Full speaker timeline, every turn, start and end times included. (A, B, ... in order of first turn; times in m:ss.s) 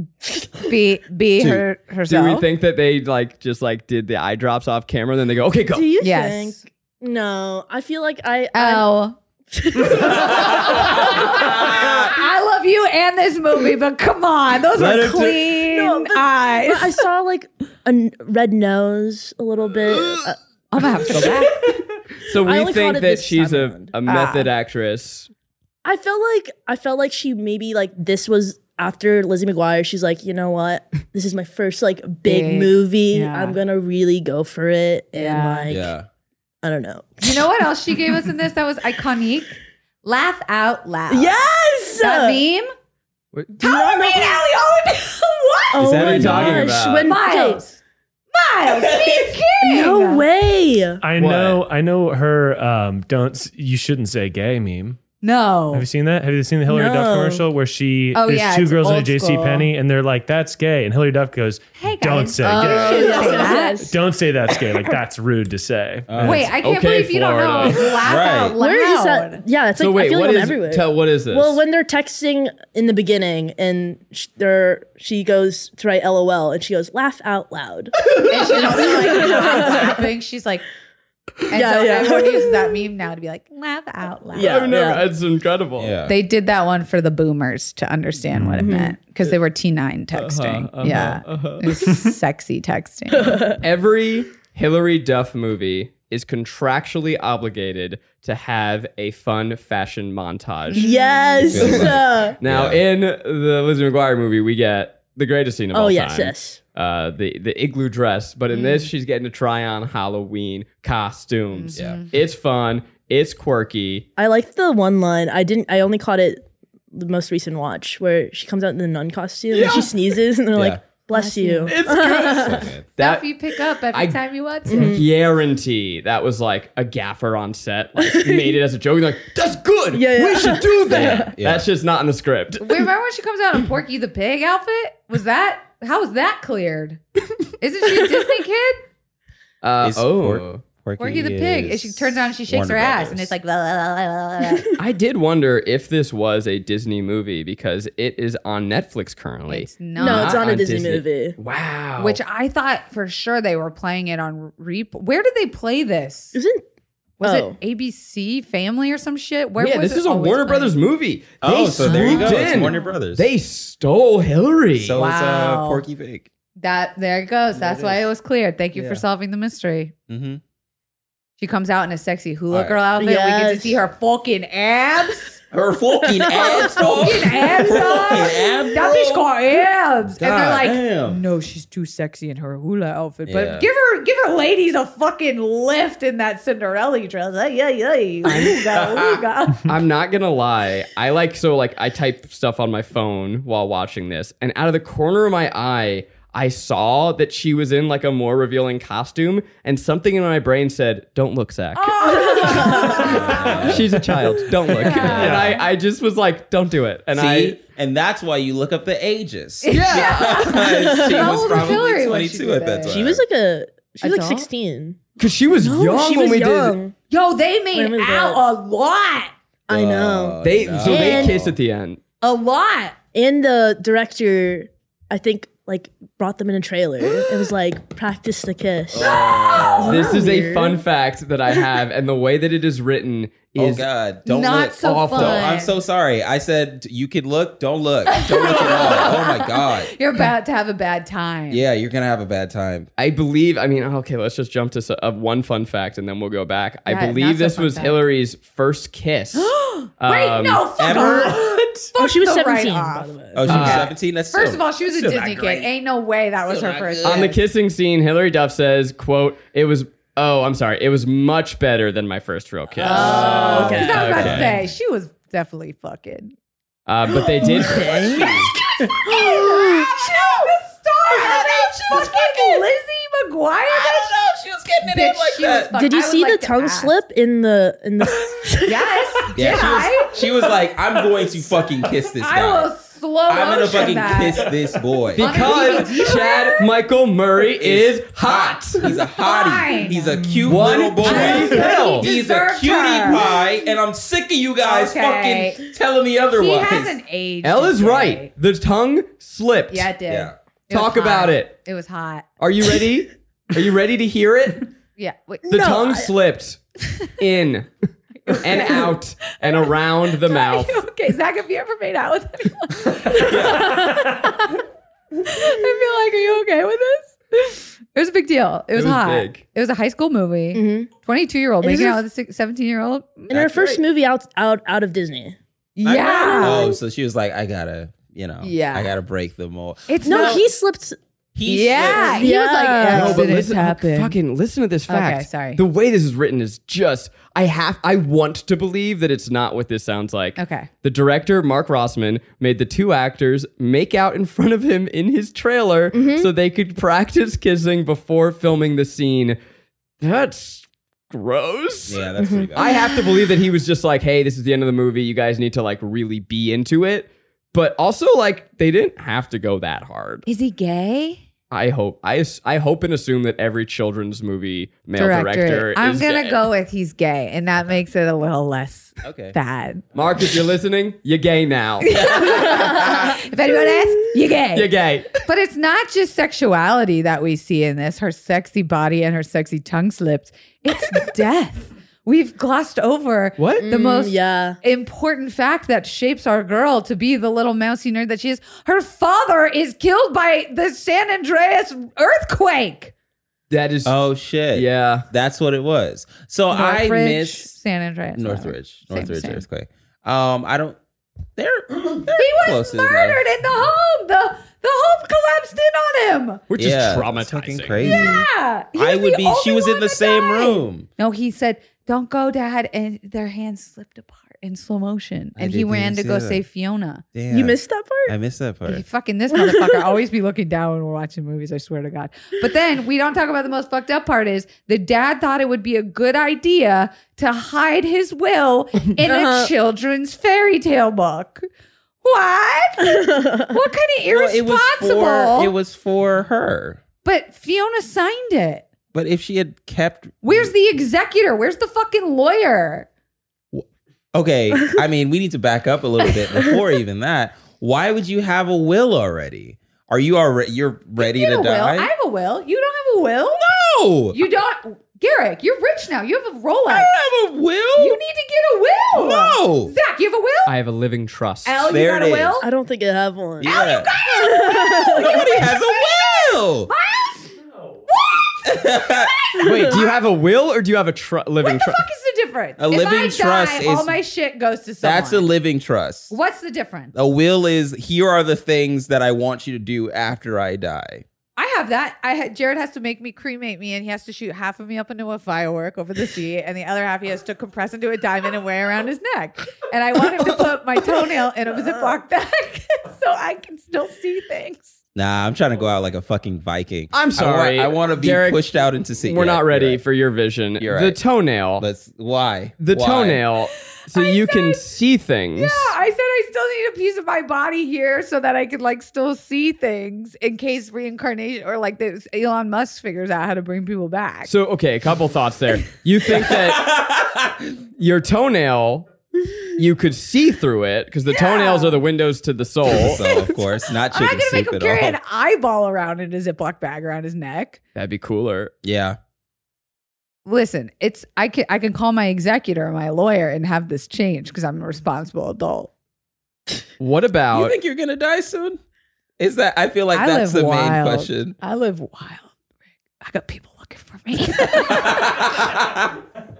0:00.6-0:02.4 A
0:02.1-0:05.9 B
0:05.7-0:08.9 C
0:06.0-0:06.6 A
0:08.5-0:09.2 A
0:09.5-0:12.1 C
0:09.8-0:17.0 A
0:10.1-0:12.1 D
0:14.7-0:20.4 C
0:20.7-0:21.6 A
0:22.2-0:25.3 B
0:22.4-0:23.9 C
0:24.0-0:24.5 A
0:25.8-0:35.9 C
0:32.2-0:33.6 A
0:35.1-0:35.7 A
0:35.7-0:36.0 D
0:36.6-0:37.5 C
0:37.2-0:41.4 A
0:41.1-0:42.4 C
0:42.0-0:42.7 A
0:43.5-0:44.4 C
0:43.6-0:46.0 A
0:45.7-0:47.6 C
0:45.8-0:46.9 D
0:45.8-0:47.1 B
0:47.0-0:47.8 A
0:48.3-0:50.2 A
0:48.6-0:49.4 D
0:49.6-0:51.0 C
0:51.0-0:55.0 E
0:51.2-0:51.6 B
0:55.2-0:55.9 A
0:55.7-1:06.2 E
0:56.7-0:57.5 C
0:58.1-0:59.7 A
1:01.8-1:03.9 A
1:02.4-1:04.0 C
1:06.1-1:06.5 D
1:06.2-1:07.9 B
1:06.2-1:09.4 A
1:08.0-1:08.6 D
1:08.6-1:20.1 C
1:09.8-1:11.6 B
1:18.3-1:20.6 A
1:21.5-1:24.7 A
1:21.5-1:22.8 C
1:24.3-1:25.0 C
1:24.4-1:25.9 B
1:25.8-1:26.2 D
1:26.1-1:33.4 A
1:28.6-1:29.0 C
1:30.1-1:31.9 B
1:33.1-1:33.6 C
1:33.6-1:40.9 B
1:40.7-1:41.8 A
1:40.8-1:42.4 C
1:41.5-1:42.8 D
1:41.6-1:54.0 B
1:45.7-1:46.6 C
1:48.5-1:48.9 A
1:51.5-1:52.1 A
1:51.7-1:52.0 D
1:54.2-2:02.7 C
1:59.5-1:59.9 B
2:00.5-2:00.8 D
2:01.1-2:01.7 A
2:01.7-2:03.3 B
2:02.2-2:02.8 D
2:03.0-2:05.0 A
2:03.9-2:12.8 B
2:04.7-2:05.0 C
2:08.0-2:08.6 C
2:09.9-2:11.3 C
2:10.9-2:11.7 D
2:12.6-2:17.0 A
2:17.6-2:18.8 A
2:19.6-2:20.6 B
2:19.8-2:23.3 D
2:21.0-2:24.7 A
2:24.8-2:32.2 B
2:29.5-2:30.4 A
2:30.0-2:31.4 C
2:32.0-2:36.4 A
2:36.3-2:36.6 C
2:37.2-2:37.6 C
2:37.2-2:40.7 A
2:39.6-2:45.0 B
2:41.4-2:43.3 D
2:41.8-2:42.9 A
2:44.8-2:46.3 D
2:45.0-2:45.8 A
2:46.6-2:49.9 A
2:47.5-2:48.1 D
2:48.7-2:49.0 D
2:50.1-2:50.4 D
2:51.4-2:55.4 A
2:52.5-2:52.8 D
2:53.0-2:53.8 C
2:55.5-2:59.3 D
2:56.1-2:57.9 C
2:56.3-3:09.7 A
3:00.2-3:01.2 D
3:03.2-3:03.7 D
3:08.4-3:09.2 D
3:09.7-3:27.6 B
3:21.7-3:23.7 A
3:22.0-3:23.2 C
3:23.0-3:24.0 D
3:24.8-3:25.6 A
3:25.0-3:25.5 D
3:27.1-3:33.2 D
3:29.6-3:33.0 A
3:29.7-3:30.5 B
3:30.6-3:31.8 C
3:32.9-3:35.0 C
3:34.0-3:34.5 A
3:35.2-3:36.8 B
3:35.6-3:36.9 C
3:37.1-3:39.3 A
3:37.7-3:38.4 C
3:39.7-3:41.4 C
3:39.7-3:41.6 D
3:40.4-3:42.0 B
3:42.2-3:42.9 A
3:43.1-3:50.8 C
3:48.9-3:50.1 D
3:49.0-3:50.0 A
3:49.9-3:53.8 B
3:53.6-3:59.9 D
3:54.2-3:55.7 A
3:54.8-3:55.6 B
3:58.1-4:01.6 A
4:01.5-4:02.9 D
4:03.0-4:10.6 B
4:06.9-4:08.0 A
4:09.3-4:17.3 A
4:10.8-4:11.9 D
4:12.0-4:13.7 C
4:13.3-4:15.7 D
4:13.5-4:13.9 B
4:16.5-4:17.4 D
4:17.0-4:24.6 B
4:22.8-4:26.3 A
4:22.9-4:24.2 C
4:22.9-4:24.6 D
4:26.9-4:28.4 B
4:27.4-4:29.8 C
4:27.4-4:30.3 D
4:28.9-4:34.1 A
4:31.1-4:32.6 D
4:33.7-4:35.7 D
4:34.8-4:36.9 A
4:35.7-4:39.0 C
4:38.6-4:40.2 A
4:39.3-4:42.7 D
4:42.2-4:44.5 A
4:43.3-4:45.8 D
4:45.1-4:48.9 B
4:45.2-4:46.6 A
4:47.5-4:57.0 D
4:49.1-4:50.2 A
4:50.4-4:52.1 B
4:51.0-4:53.3 A
4:54.6-4:55.7 A
4:56.4-4:58.3 A
4:57.4-4:59.9 B
4:59.7-5:02.2 A
5:00.1-5:00.4 D
5:00.7-5:01.5 B
5:02.4-5:04.7 B
5:05.0-5:05.5 A
5:05.5-5:06.1 C
5:05.5-5:06.6 B
5:07.2-5:07.7 B
5:08.3-5:08.9 A
5:08.3-5:10.8 B
5:10.2-5:14.6 A
5:13.0-5:13.8 D
5:13.2-5:14.2 C
5:15.2-5:23.3 A
5:18.7-5:19.4 B
5:20.5-5:20.9 C
5:21.6-5:22.0 C
5:23.3-5:23.8 D
5:23.3-5:25.4 C
5:25.8-5:26.7 A
5:25.8-5:30.4 D
5:26.1-5:26.7 C
5:28.4-5:28.9 A
5:29.9-5:30.4 A
5:30.0-5:31.0 C
5:31.4-5:32.3 D
5:31.4-5:34.2 A
5:31.8-5:33.3 C
5:32.9-5:49.4 B
5:34.9-5:35.6 A
5:40.4-5:40.7 A
5:45.9-5:46.3 C
5:50.0-6:00.2 B
5:51.9-5:52.6 D
5:52.2-5:52.7 C
6:00.2-6:01.2 A
6:01.5-6:06.4 B
6:05.0-6:09.8 A
6:09.0-6:09.4 D
6:09.9-6:12.0 B
6:11.8-6:32.9 A
6:11.9-6:13.2 D
6:14.5-6:15.2 B
6:23.4-6:23.6 B
6:23.6-6:24.6 C
6:33.5-6:34.0 B
6:33.8-6:37.5 D
6:34.5-6:35.0 B
6:36.5-6:39.4 A
6:38.2-6:40.8 D
6:41.4-6:43.2 D
6:42.2-6:46.4 A
6:46.5-6:47.8 B
6:46.6-6:50.9 D
6:47.8-6:57.0 A
6:47.8-6:48.2 C
6:55.4-6:56.4 D
6:57.1-6:58.8 D
6:57.3-6:58.1 C
6:58.7-7:11.4 A
6:59.3-6:59.9 C
7:09.0-7:09.5 C
7:12.0-7:15.5 A
7:12.8-7:13.6 C
7:14.1-7:16.8 D
7:17.0-7:18.7 A
7:18.9-7:20.5 D
7:20.2-7:22.9 A
7:23.5-7:31.9 D
7:31.0-7:33.5 A
7:33.4-7:34.2 D
7:34.1-7:36.9 A
7:36.7-7:38.0 D
7:37.8-7:40.5 A
7:38.9-7:39.7 D
7:40.4-7:41.7 B
7:41.4-7:42.5 A
7:41.7-7:42.4 D
7:42.4-7:45.2 C
7:43.4-7:43.9 D
7:43.4-7:47.3 A
7:44.9-7:46.7 D
7:47.9-7:49.7 A
7:48.4-7:49.8 D
7:49.4-7:51.8 B
7:51.4-7:55.3 A
7:52.6-7:54.0 D
7:54.8-7:56.1 D
7:56.1-7:56.9 A
7:56.9-8:01.0 D
8:01.4-8:14.7 A
8:14.9-8:19.8 D
8:16.9-8:18.4 B
8:19.0-8:21.6 B
8:20.6-8:21.0 D
8:21.6-8:23.2 D
8:22.6-8:25.7 B
8:23.9-8:24.6 A
8:25.4-8:34.3 A
8:34.2-8:36.7 B
8:36.1-8:37.6 D
8:37.8-8:38.9 B
8:39.5-8:43.3 B
8:41.1-8:41.8 A
8:42.7-8:45.0 D
8:43.9-8:47.6 A
8:47.7-8:48.5 B
8:48.6-8:49.0 D
8:50.2-8:55.7 A
8:56.8-8:57.6 B
8:57.3-8:58.6 D
8:59.2-9:01.4 D
8:59.9-9:02.3 A
9:03.0-9:05.4 A
9:04.4-9:06.0 D